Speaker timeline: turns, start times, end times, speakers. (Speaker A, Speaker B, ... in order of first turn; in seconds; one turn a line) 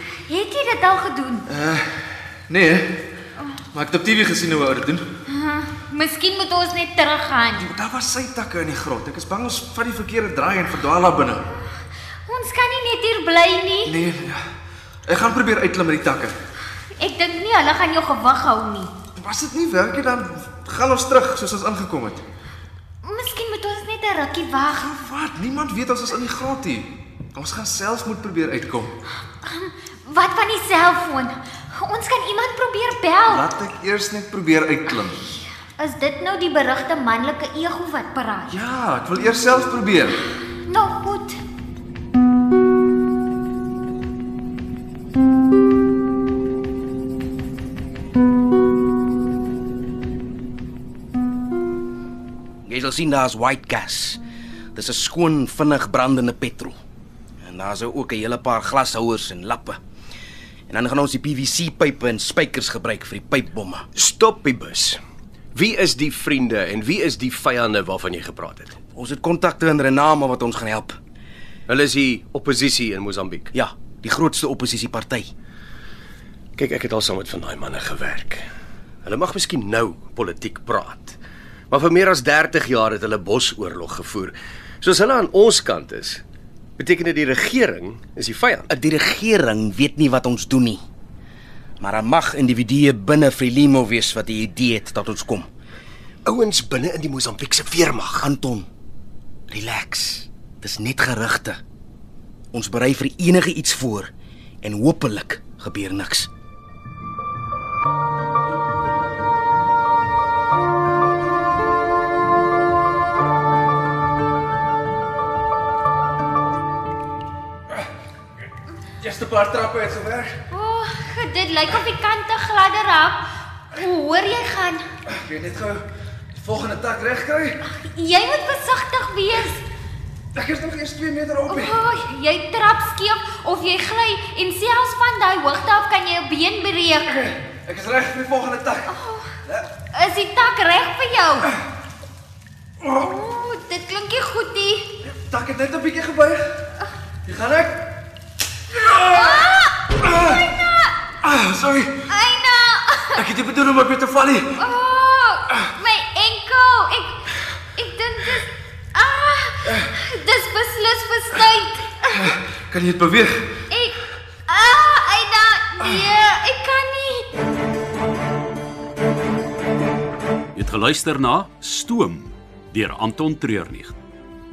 Speaker A: 0.2-1.5
Speaker B: 1.5-3.1
Speaker B: 3.7-5.1
Speaker A: 5.3-7.7
Speaker B: 7.6-11.4
Speaker A: 12.3-14.0
Speaker B: 13.8-14.4
Speaker B: 15.1-16.3
Speaker A: 17.0-18.9
Speaker B: 19.2-22.2
Speaker A: 23.0-25.0
Speaker B: 25.0-28.9
Speaker A: 29.4-33.5
Speaker B: 33.3-35.2
Speaker A: 35.5-38.5
Speaker B: 38.5-40.2
Speaker A: 40.6-41.4
Speaker C: 52.7-54.2
Speaker C: 54.8-56.8
Speaker C: 57.4-59.8
Speaker C: 60.7-63.9
Speaker D: 64.0-65.0
Speaker D: 65.5-68.8
Speaker C: 68.9-71.0
Speaker D: 71.7-73.5
Speaker C: 73.5-75.3
Speaker D: 76.6-78.5
Speaker D: 79.0-81.2
Speaker D: 81.7-86.2
Speaker D: 86.8-88.7
Speaker C: 88.7-90.8
Speaker C: 91.8-95.5
Speaker D: 96.2-98.3
Speaker C: 98.2-98.7
Speaker C: 99.5-101.6
Speaker C: 102.5-104.1
Speaker C: 104.6-106.3
Speaker B: 119.0-120.3
Speaker A: 120.5-124.8
Speaker B: 125.1-127.6
Speaker A: 127.6-129.6
Speaker B: 130.3-131.8
Speaker A: 131.5-137.3
Speaker B: 137.4-138.9
Speaker A: 138.9-139.3
Speaker A: 139.9-141.5
Speaker A: 142.9-144.9
Speaker B: 145.0-146.5
Speaker B: 147.3-147.9
Speaker B: 148.7-150.4
Speaker A: 149.1-151.0
Speaker B: 151.2-152.0
Speaker A: 152.1-153.3
Speaker B: 153.2-154.6
Speaker A: 154.6-162.3
Speaker B: 162.1-163.6
Speaker A: 163.7-167.3
Speaker E: 170.5-174.0